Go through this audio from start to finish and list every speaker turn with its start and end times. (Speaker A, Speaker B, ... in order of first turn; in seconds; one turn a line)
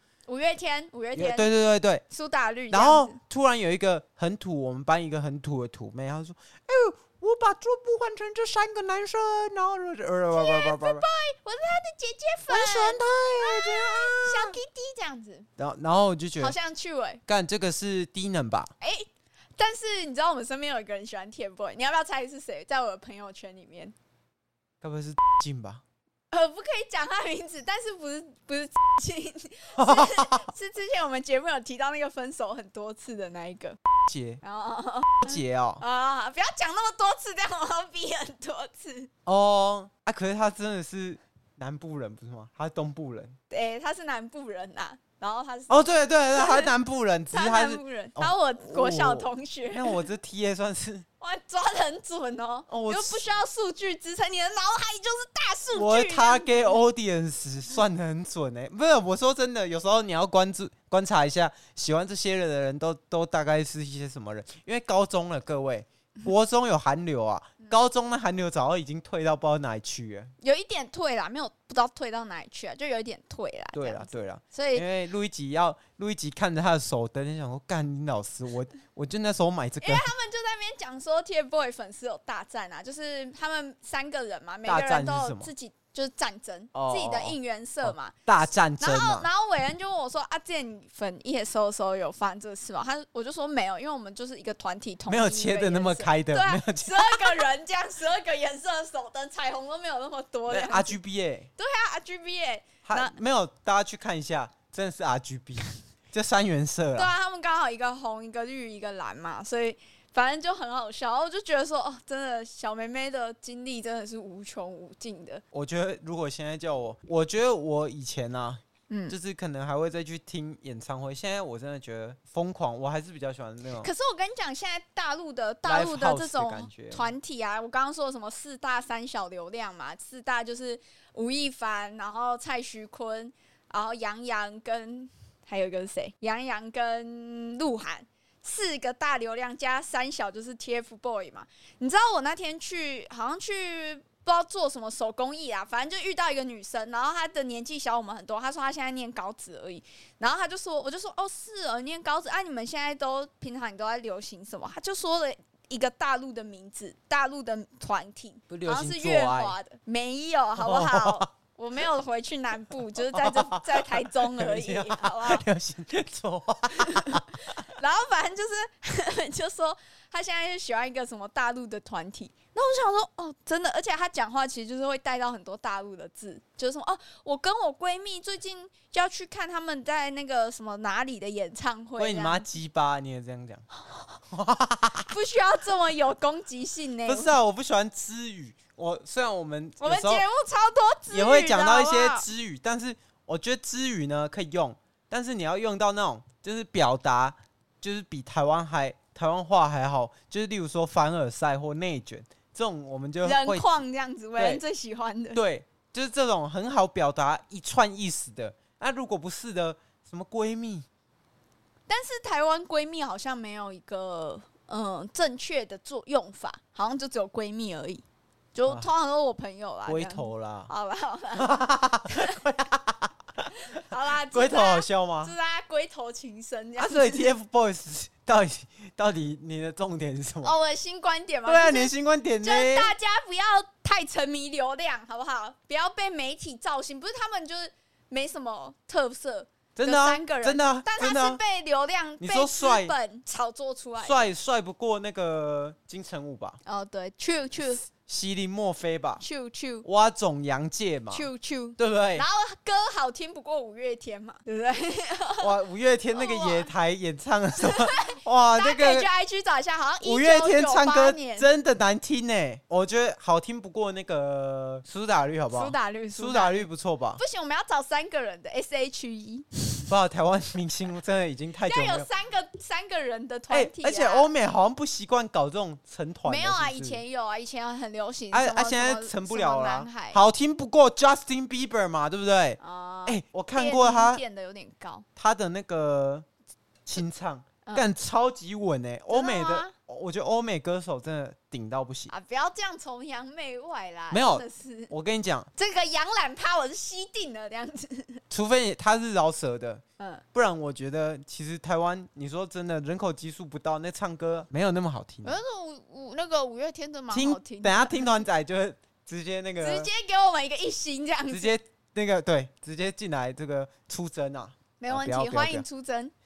Speaker A: 0.3-1.5
Speaker B: 1.1-2.0
Speaker A: 2.1-3.2
Speaker B: 2.7-11.1
Speaker A: 10.3-15.5
Speaker B: 12.5-14.6
Speaker B: 15.6-16.5
Speaker A: 16.4-17.2
Speaker B: 17.3-18.7
Speaker A: 18.8-23.9
Speaker B: 24.8-25.8
Speaker A: 26.3-33.8
Speaker B: 29.8-30.5
Speaker B: 34.1-34.4
Speaker A: 34.4-39.1
Speaker B: 35.2-35.8
Speaker B: 39.2-43.4
Speaker A: 43.5-46.7
Speaker B: 45.7-51.0
Speaker A: 47.3-50.0
Speaker A: 51.2-56.8
Speaker B: 52.7-53.2
Speaker B: 55.7-70.3
Speaker A: 70.4-74.8
Speaker B: 73.7-80.1
Speaker A: 79.8-88.1
Speaker B: 84.7-85.5
Speaker B: 86.7-89.3
Speaker A: 88.8-101.0
Speaker B: 95.1-97.5
Speaker B: 100.5-101.5
Speaker A: 101.6-103.2
Speaker B: 102.8-107.1
Speaker A: 107.0-115.4
Speaker B: 115.5-123.9
Speaker A: 118.9-119.2
Speaker A: 123.8-165.4
Speaker B: 125.6-127.1
Speaker B: 158.5-159.5
Speaker B: 160.6-161.3
Speaker B: 163.1-167.4
Speaker A: 166.7-182.5
Speaker B: 182.0-183.6
Speaker B: 184.3-185.1
Speaker A: 185.1-187.3
Speaker B: 187.0-190.2
Speaker A: 189.8-192.3
Speaker B: 191.1-203.7
Speaker A: 203.2-205.4
Speaker B: 204.4-204.6
Speaker B: 205.3-210.8
Speaker A: 211.9-218.0
Speaker A: 218.5-222.4
Speaker B: 219.9-220.7
Speaker B: 221.3-223.5
Speaker A: 223.6-227.3
Speaker B: 224.3-225.3
Speaker B: 226.8-230.5
Speaker A: 230.4-244.3
Speaker B: 231.4-232.9
Speaker B: 239.8-241.4
Speaker B: 242.2-242.9
Speaker B: 244.0-246.6
Speaker A: 246.6-247.8
Speaker B: 247.8-249.2
Speaker A: 249.2-249.8
Speaker B: 249.8-252.2
Speaker A: 251.1-255.5
Speaker B: 255.4-259.1
Speaker A: 256.1-256.7
Speaker A: 257.6-261.5
Speaker B: 260.0-267.2
Speaker A: 265.5-269.9
Speaker B: 269.9-272.1
Speaker A: 271.6-274.3
Speaker B: 273.5-277.0
Speaker A: 276.2-280.2
Speaker B: 278.3-284.2
Speaker A: 282.6-285.0
Speaker B: 285.2-286.2
Speaker B: 286.9-292.1
Speaker A: 289.1-289.7
Speaker A: 292.1-294.9
Speaker B: 294.1-295.5
Speaker A: 295.6-298.2
Speaker B: 298.3-299.8
Speaker B: 300.3-305.4
Speaker A: 305.2-308.1
Speaker B: 307.1-309.9
Speaker A: 309.6-311.5
Speaker B: 311.3-315.6
Speaker A: 314.8-316.1